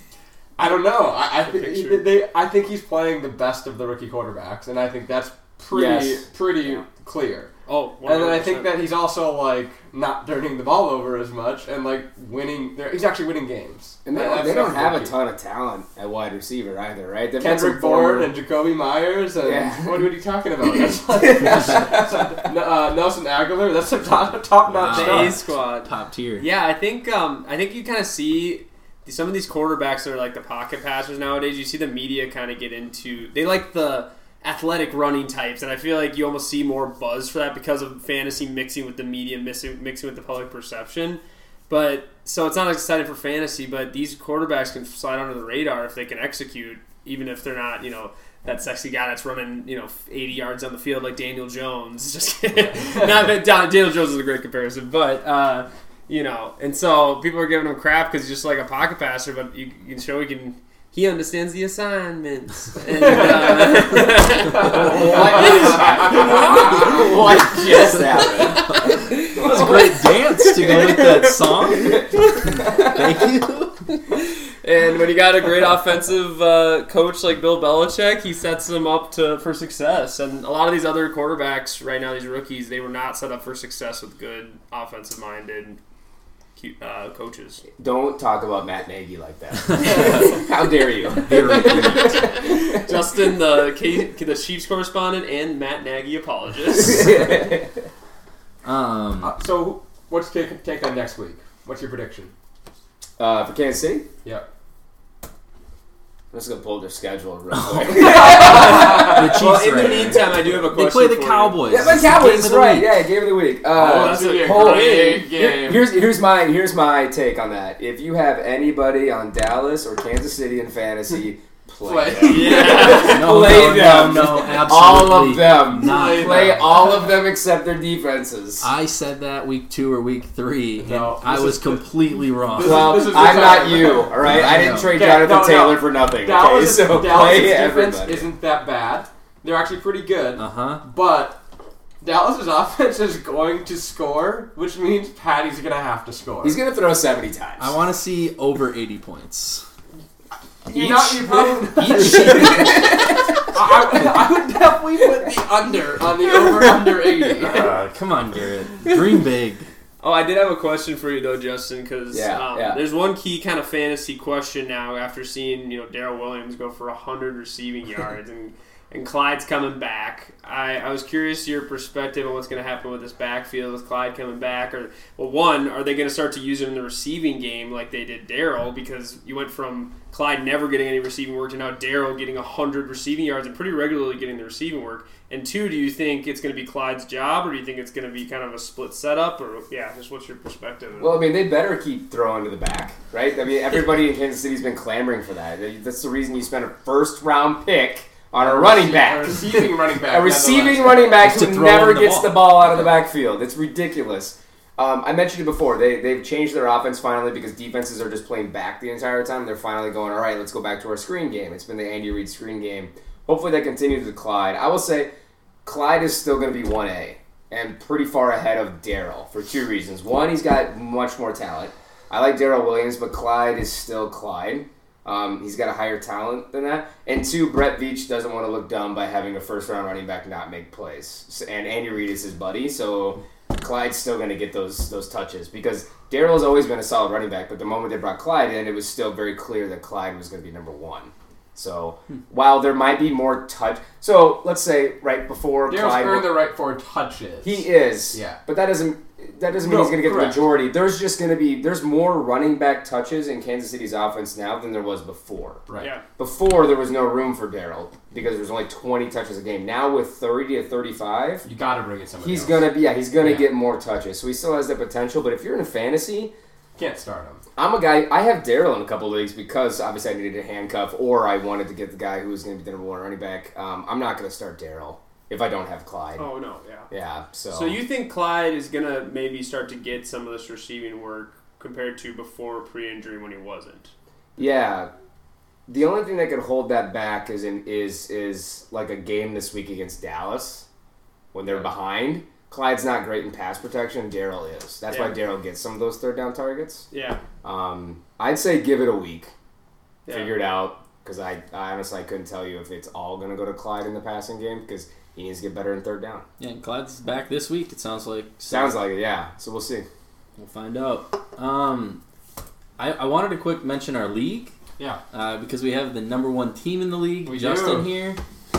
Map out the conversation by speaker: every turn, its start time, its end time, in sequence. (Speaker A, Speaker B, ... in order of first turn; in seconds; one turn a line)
Speaker A: 0.6-7.5
Speaker B: 1.4-2.1
Speaker C: 5.7-6.8
Speaker B: 7.7-8.8
Speaker A: 8.1-15.2
Speaker C: 14.1-18.3
Speaker A: 17.4-25.4
Speaker C: 19.4-20.1
Speaker C: 21.1-22.5
Speaker D: 24.7-26.5
Speaker B: 24.9-67.0
Speaker A: 63.1-63.8
Speaker A: 64.5-67.2
Speaker C: 64.8-69.9
Speaker D: 67.5-73.8
Speaker B: 69.2-69.9
Speaker B: 70.5-71.3
Speaker B: 74.1-85.8
Speaker B: 86.6-87.7
Speaker C: 87.8-92.5
Speaker D: 89.7-90.5
Speaker D: 91.2-92.2
Speaker B: 92.0-97.1
Speaker C: 96.8-97.8
Speaker D: 98.6-99.3
Speaker A: 99.2-102.3
Speaker C: 103.2-104.1
Speaker C: 106.3-110.6
Speaker D: 107.5-113.0
Speaker A: 108.0-108.7
Speaker B: 108.2-111.7
Speaker C: 111.7-128.7
Speaker A: 113.7-115.9
Speaker B: 113.8-115.2
Speaker A: 121.8-122.9
Speaker B: 122.2-123.5
Speaker D: 122.8-126.7
Speaker A: 125.8-127.0
Speaker D: 128.6-133.4
Speaker A: 130.8-131.9
Speaker A: 132.4-141.4
Speaker C: 132.6-138.3
Speaker D: 134.2-135.0
Speaker D: 140.4-140.8
Speaker A: 142.0-146.6
Speaker C: 146.4-147.7
Speaker D: 147.6-149.7
Speaker A: 150.7-157.7
Speaker D: 150.7-153.0
Speaker C: 152.3-153.0
Speaker D: 157.4-159.7
Speaker B: 160.0-191.2
Speaker C: 162.1-162.8
Speaker C: 191.0-215.1
Speaker A: 198.4-201.2
Speaker D: 201.2-202.5
Speaker C: 215.7-246.4
Speaker A: 245.7-248.4
Speaker C: 247.4-255.6
Speaker A: 249.6-250.4
Speaker B: 255.8-256.0
Speaker C: 256.2-261.4
Speaker A: 261.4-262.7
Speaker C: 262.2-266.3
Speaker A: 263.2-263.5
Speaker A: 266.8-267.4
Speaker C: 267.6-276.3
Speaker B: 276.2-276.9
Speaker C: 276.9-277.8
Speaker B: 277.5-283.9
Speaker C: 284.4-284.9
Speaker C: 285.7-290.7
Speaker C: 291.3-296.9
Speaker B: 294.9-295.2
Speaker B: 296.9-297.2
Speaker C: 297.4-299.3
Speaker B: 300.1-300.3
Speaker C: 300.1-306.2
Speaker D: 306.4-308.8
Speaker C: 308.5-309.9
Speaker D: 310.4-312.0
Speaker D: 312.8-314.6
Speaker D: 315.1-318.2
Speaker A: 317.2-317.9